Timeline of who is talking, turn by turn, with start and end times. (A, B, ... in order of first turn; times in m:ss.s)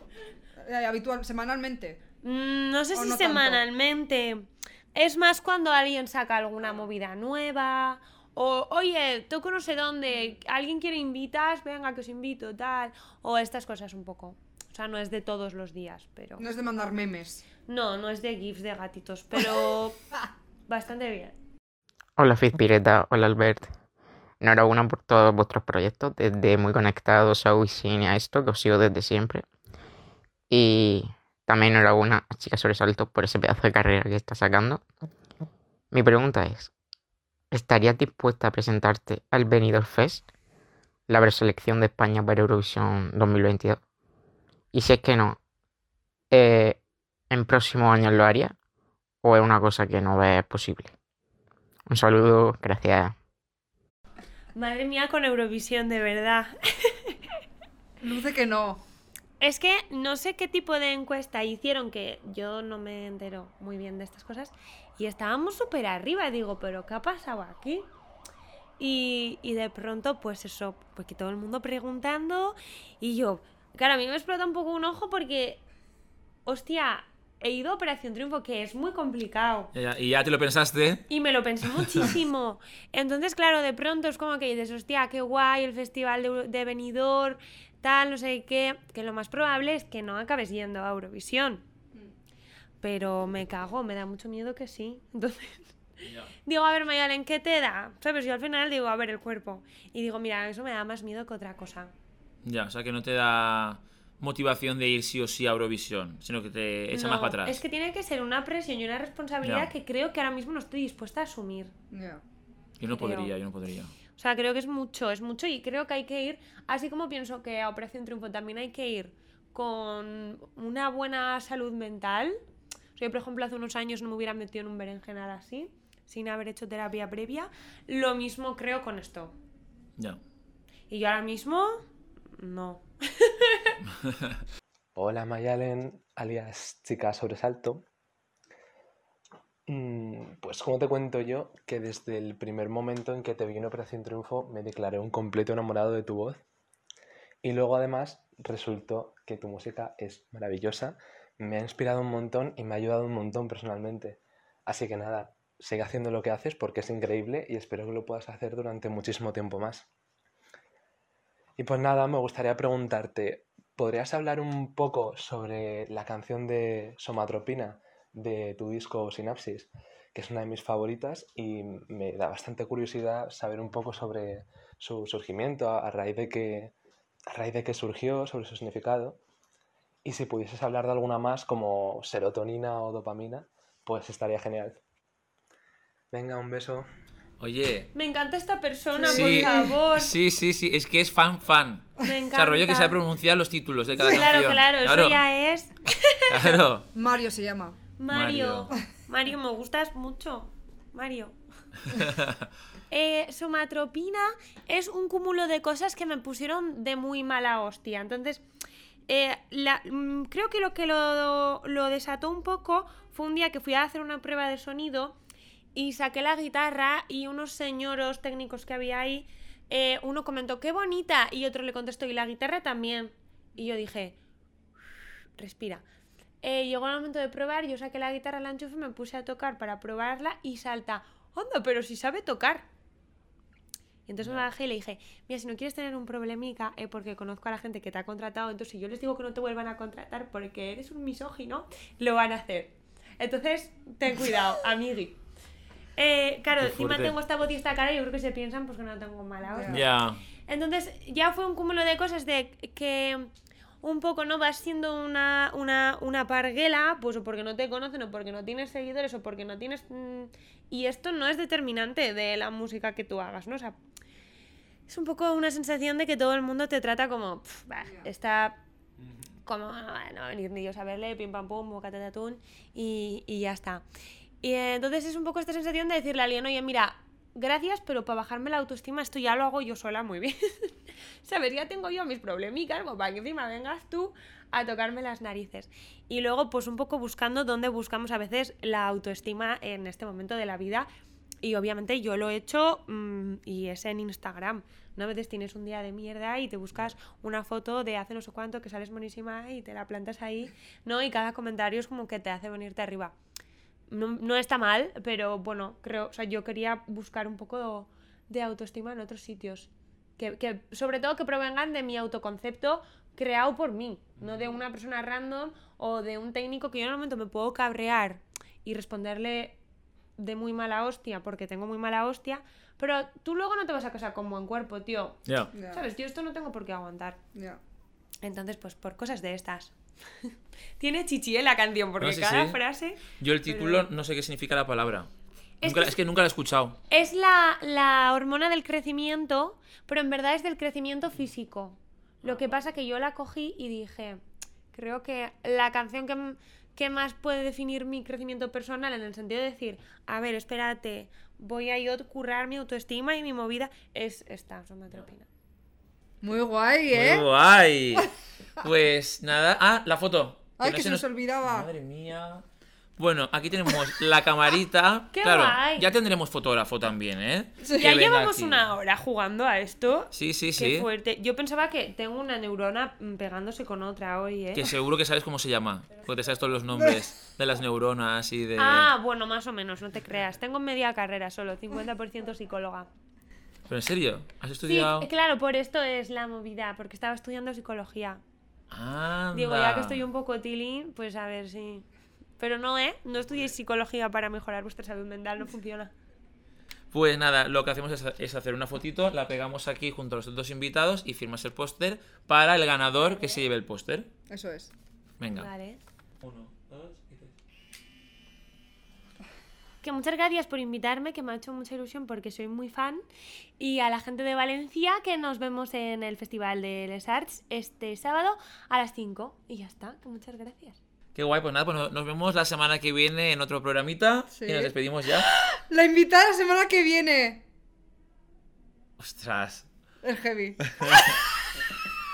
0:00.6-0:02.0 A
0:02.2-0:16.5 B
0:02.9-0:03.6 A
0:16.4-0:17.4 A
0:17.7-0:20.0 B
0:20.7-0:21.4 B
0:22.2-0:23.7 C
0:24.4-0:29.4 C
0:30.5-0:34.8 C
0:35.9-0:36.7 C
0:37.5-0:40.3 C
0:41.1-0:43.8 C
0:44.7-0:45.4 C
0:46.3-0:46.8 C
0:47.3-0:48.5 C
0:49.2-0:50.9 C
0:51.9-0:53.1 C
0:54.6-0:57.2 B
0:58.0-0:58.8 A
0:59.4-1:07.9 B
1:08.8-1:15.6 B
1:16.4-1:19.7 B
1:19.7-1:21.1 D
1:21.1-1:31.6 B
1:21.7-1:22.1 D
1:32.8-1:35.7 B
1:36.0-1:36.3 D
1:36.4-1:41.9 B
1:42.4-1:47.6 D
1:46.9-1:51.7 B
1:49.4-1:49.7 D
1:51.9-1:52.2 A
1:52.8-1:54.0 D
1:52.9-1:53.3 B
1:54.1-2:02.4 B
2:03.0-2:09.4 B
2:10.9-2:11.8 B
2:12.4-2:13.7 B
2:14.0-2:14.4 D
2:15.0-2:17.8 E
2:19.7-2:26.4 E
2:27.4-2:39.9 E
2:41.6-2:56.7 E
2:57.3-2:59.2 E
3:00.0-3:04.8 E
3:06.1-3:06.9 E
3:07.4-3:07.9 D
3:07.9-3:10.1 B
3:09.0-3:09.7 A
3:09.1-3:15.2 D
3:12.0-3:13.0 B
3:14.0-3:16.6 B
3:16.3-3:16.9 D
3:16.9-3:17.8 A
3:18.0-3:21.4 B
3:18.1-3:18.7 D
3:21.9-3:22.5 D
3:22.9-3:28.4 B
3:29.1-3:35.2 B
3:35.7-3:44.2 B
3:45.4-3:45.8 B
3:46.4-3:52.7 B
3:54.1-4:05.2 B
4:06.0-4:09.8 B
4:06.6-4:07.1 D
4:09.4-4:09.9 A
4:09.7-4:10.2 D
4:10.5-4:13.3 B
4:13.8-4:23.8 B
4:24.9-4:28.6 B
4:29.4-4:33.8 B
4:34.4-4:50.9 B
4:51.4-5:03.1 B
5:03.9-5:19.6 B
5:14.2-5:14.5 D
5:20.2-5:27.2 B
5:25.3-5:25.5 D
5:25.6-5:25.8 A
5:27.4-5:27.6 A
5:28.2-5:33.9 B
5:32.0-5:35.1 D
5:35.6-5:36.0 B
5:35.6-5:36.8 D
5:36.9-5:44.2 B
5:44.7-5:55.3 B
5:56.2-5:57.2 A
5:56.9-6:02.4 D
6:00.6-6:01.7 A
6:03.0-6:08.6 D
6:05.1-6:05.9 B
6:07.6-6:07.9 A
6:07.8-6:14.7 B
6:10.1-6:10.9 D
6:14.6-6:18.9 D
6:18.6-6:22.9 B
6:23.7-6:25.1 D
6:24.6-6:28.2 B
6:28.7-6:30.0 D
6:29.3-6:31.9 B
6:32.4-6:35.9 B
6:36.9-6:44.1 D
6:43.0-6:43.4 B
6:44.3-6:44.7 A
6:45.2-6:45.5 D
6:45.3-6:45.8 B
6:46.2-6:47.3 D
6:49.8-6:53.0 B
6:53.6-7:00.8 B
7:01.1-7:05.3 D
7:04.3-7:07.4 A
7:09.0-7:09.7 D
7:10.0-7:11.0 A
7:10.6-7:11.2 D